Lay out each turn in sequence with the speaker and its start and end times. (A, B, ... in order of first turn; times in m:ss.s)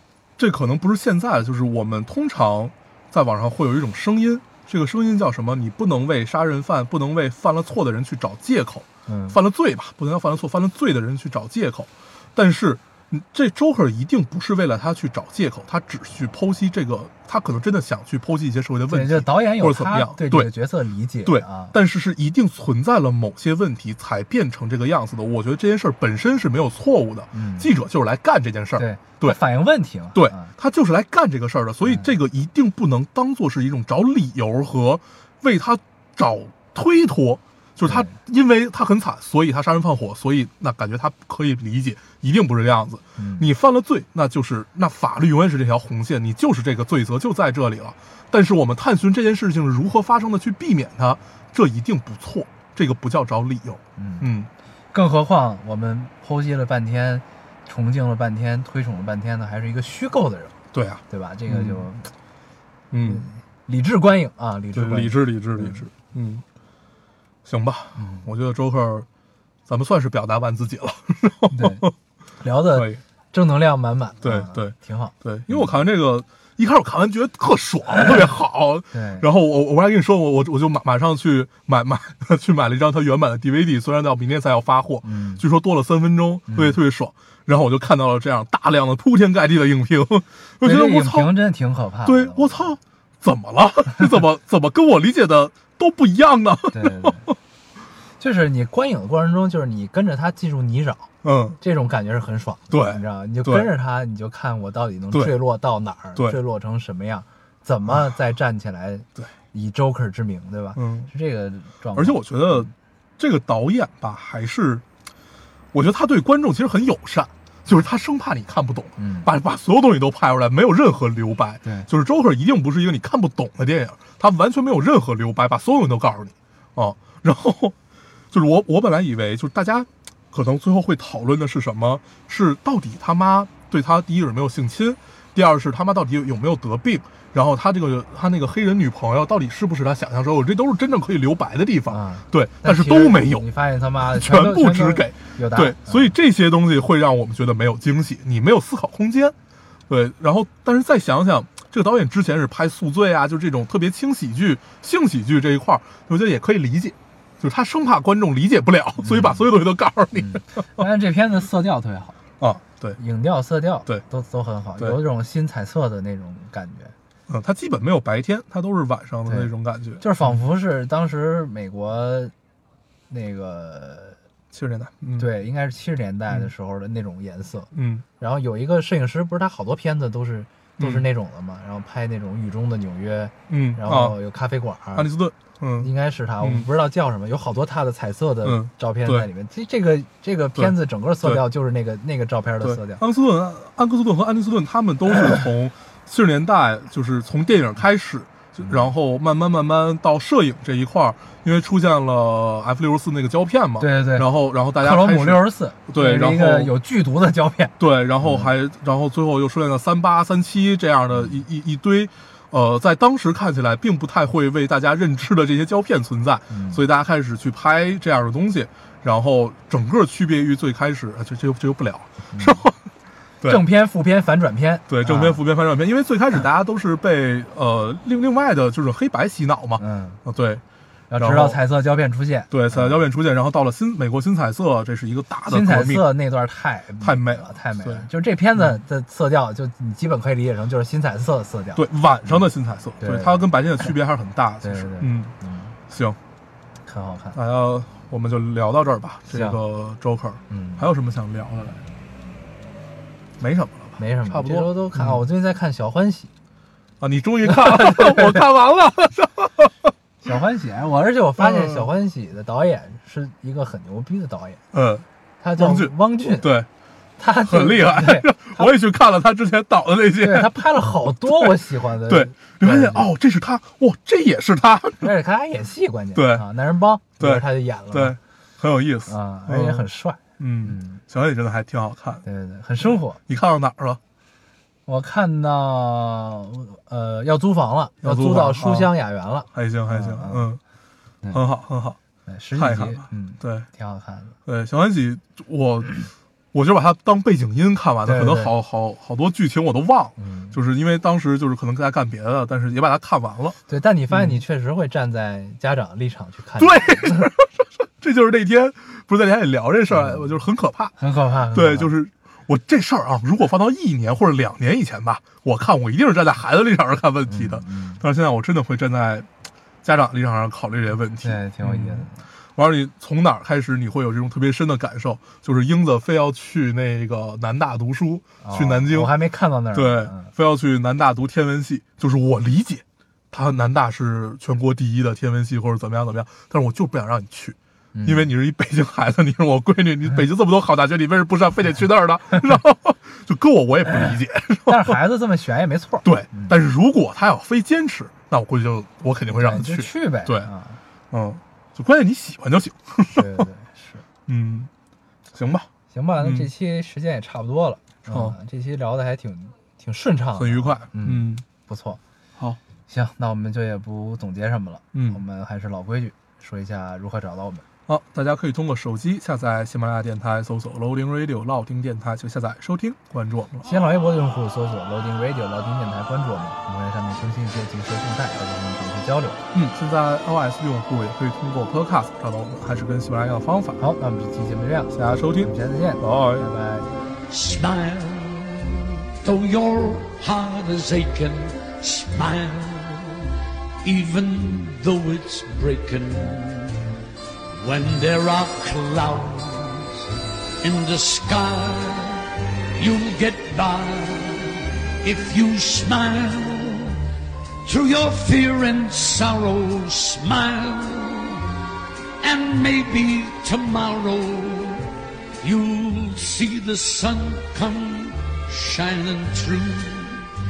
0:00.4-0:20.5 A
0:09.1-0:09.4 B
0:18.9-0:21.7 B
0:21.2-0:29.4 A
0:27.3-0:27.7 B
0:28.8-0:30.5 B
0:30.1-0:54.5 A
0:37.8-0:38.2 B
0:43.2-0:43.5 B
0:54.0-0:54.3 B
0:54.9-1:00.6 B
1:00.7-1:01.9 A
1:01.1-1:02.1 B
1:02.9-1:03.3 A
1:03.0-1:05.8 B
1:04.7-1:06.4 A
1:07.4-1:09.1 A
1:08.0-1:08.2 B
1:09.7-1:11.9 A
1:11.5-1:11.9 B
1:12.4-1:15.7 B
1:12.7-1:13.0 A
1:14.2-1:31.3 A
1:18.9-1:19.2 B
1:25.0-1:25.4 B
1:26.5-1:26.8 B
1:30.6-1:32.8 B
1:32.0-1:37.3 A
1:36.7-1:37.3 B
1:38.2-1:41.1 B
1:41.2-1:41.6 A
1:41.6-1:52.7 B
1:42.7-1:43.7 A
1:50.8-1:51.1 A
1:51.9-1:54.8 A
1:55.7-2:07.8 A
1:59.0-1:59.3 B
2:01.6-2:01.9 B
2:08.3-2:23.5 A
2:21.9-2:26.1 B
2:24.1-2:29.3 A
2:29.9-2:40.9 A
2:39.0-2:39.4 B
2:40.2-2:42.2 B
2:42.4-2:43.0 A
2:43.0-2:46.9 B
2:47.3-2:50.0 A
2:49.2-2:52.3 B
2:53.1-2:54.2 B
2:54.5-2:55.3 A
2:55.2-3:05.1 B
2:57.7-2:58.0 A
3:00.8-3:01.0 A
3:03.5-3:04.2 A
3:04.9-3:05.9 A
3:05.8-3:13.0 B
3:06.4-3:06.7 A
3:08.4-3:09.3 A
3:10.5-3:11.4 A
3:12.6-3:26.7 A
3:23.8-3:28.5 B
3:27.8-3:42.8 A
3:31.1-3:31.4 B
3:36.5-3:36.8 B
3:42.3-3:42.6 B
3:43.4-3:45.4 B
3:44.9-3:50.6 A
3:49.8-3:50.2 B
3:51.1-3:53.0 B
3:51.1-3:51.6 A
3:52.5-3:56.0 A
3:55.5-4:02.4 B
3:57.0-3:58.0 A
4:01.7-4:05.3 A
4:03.0-4:03.5 B
4:04.6-4:05.7 B
4:05.9-4:06.2 A
4:06.8-4:07.4 B
4:07.3-4:11.8 A
4:09.3-4:09.6 B
4:10.5-4:10.8 B
4:13.4-4:15.2 A
4:14.0-4:16.3 B
4:17.0-4:19.9 A
4:17.4-4:18.4 B
4:20.2-4:24.6 B
4:21.4-4:21.9 A
4:24.7-4:25.0 A
4:25.4-4:26.5 B
4:25.6-4:26.7 A
4:27.2-4:28.7 B
4:27.4-4:30.6 A
4:30.2-4:33.1 B
4:31.3-4:31.5 A
4:32.1-4:35.1 A
4:35.0-4:38.1 B
4:36.1-4:36.4 A
4:37.2-4:42.2 A
4:39.1-4:41.0 B
4:42.2-4:43.2 B
4:43.3-4:44.0 A
4:44.9-4:50.5 B
4:48.0-4:48.9 A
4:49.5-4:50.6 A
4:51.3-4:52.0 A
4:52.2-4:54.3 B
4:52.6-4:53.7 A
4:54.4-5:03.6 A
4:58.0-4:58.5 B
5:00.2-5:00.6 B
5:03.7-5:07.3 B
5:04.1-5:04.4 A
5:06.6-5:10.9 A
5:09.9-5:10.3 B
5:11.0-5:11.9 B
5:11.5-5:19.3 A
5:17.3-5:18.0 B
5:19.8-5:29.1 A
5:21.2-5:22.2 B
5:28.4-5:30.3 B
5:29.7-5:45.0 A
5:37.9-5:38.3 B
5:44.7-5:46.5 B
5:46.0-5:50.5 A
5:49.3-5:50.8 B
5:51.1-5:53.5 A
5:53.1-5:54.0 B
5:54.3-5:54.7 A
5:55.3-5:55.7 A
5:55.9-6:02.0 B
5:56.2-5:56.5 A
5:58.1-5:58.4 A
6:00.4-6:01.4 A
6:02.9-6:07.6 B
6:04.9-6:05.2 A
6:07.9-6:13.7 A
6:13.6-6:19.4 B
6:19.5-6:23.8 A
6:23.8-6:27.0 B
6:24.9-6:26.4 A
6:27.3-6:36.8 C
6:37.6-6:40.1 C
6:40.6-6:47.0 C
6:47.6-6:51.5 C
6:52.2-7:00.3 C